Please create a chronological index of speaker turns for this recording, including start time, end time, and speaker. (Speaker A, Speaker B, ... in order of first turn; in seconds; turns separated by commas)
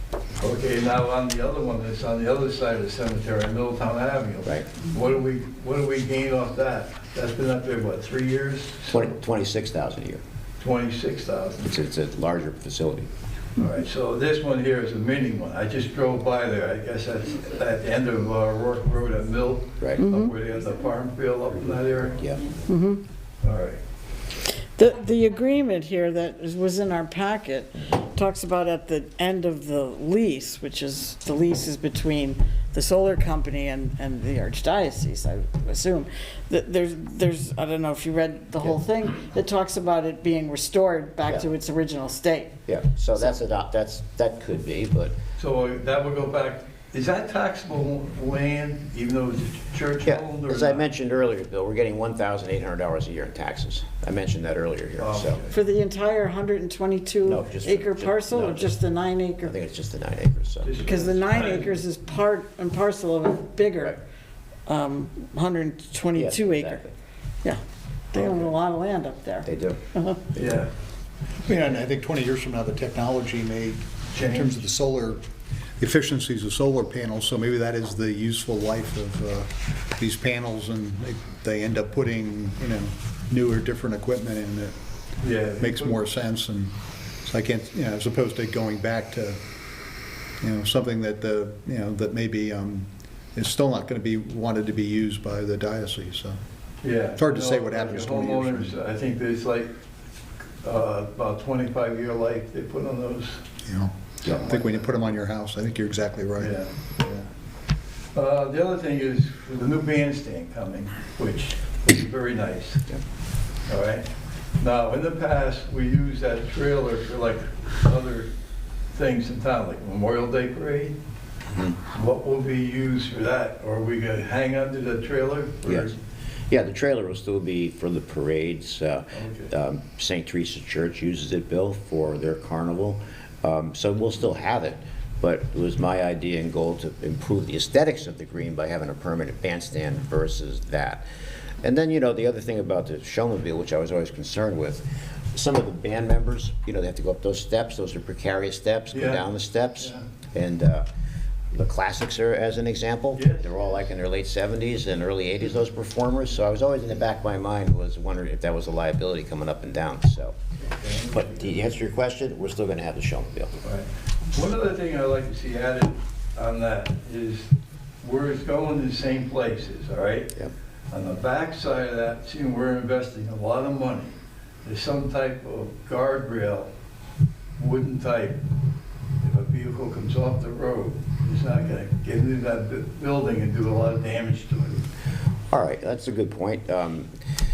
Speaker A: 0.4-9.1, Speaker B: 8.9-10.2, Speaker A: 10.6-11.7, Speaker B: 11.6-13.1, Speaker A: 13.6-22.2, Speaker C: 20.0-20.3, Speaker C: 22.7-23.0, Speaker A: 23.4-23.8, Speaker C: 24.8-42.5, Speaker B: 42.7-45.1, Speaker A: 45.4-50.8, Speaker B: 50.0-55.4, Speaker A: 55.0-55.5, Speaker C: 55.5-59.5, Speaker B: 57.3-58.7, Speaker B: 59.4-61.0, Speaker A: 60.6-61.7, Speaker C: 60.8-64.0, Speaker C: 64.7-66.8, Speaker B: 66.2-66.9, Speaker C: 68.1-70.2, Speaker A: 68.2-68.5, Speaker B: 69.5-69.8, Speaker A: 70.3-70.7, Speaker D: 71.5-75.2, Speaker A: 74.1-74.7, Speaker D: 75.8-84.7, Speaker A: 85.2-86.0, Speaker D: 85.6-86.7, Speaker D: 87.2-89.4, Speaker D: 90.4-96.4, Speaker A: 96.8-99.7, Speaker D: 97.2-98.7, Speaker A: 100.6-103.4, Speaker D: 103.7-106.5, Speaker A: 104.2-105.0, Speaker A: 106.4-107.3, Speaker A: 108.2-112.8, Speaker A: 113.7-114.1, Speaker A: 114.6-118.3, Speaker A: 118.9-120.9, Speaker A: 121.9-126.0, Speaker B: 125.7-125.9, Speaker B: 126.5-141.1, Speaker A: 129.1-129.5, Speaker B: 141.6-150.8, Speaker A: 148.9-149.3, Speaker B: 151.5-160.3, Speaker A: 153.2-153.9, Speaker A: 160.8-161.5, Speaker B: 161.1-163.5, Speaker A: 163.6-167.5, Speaker A: 168.0-170.3, Speaker A: 170.9-176.7, Speaker A: 177.6-178.4, Speaker A: 179.2-184.9, Speaker B: 185.5-187.1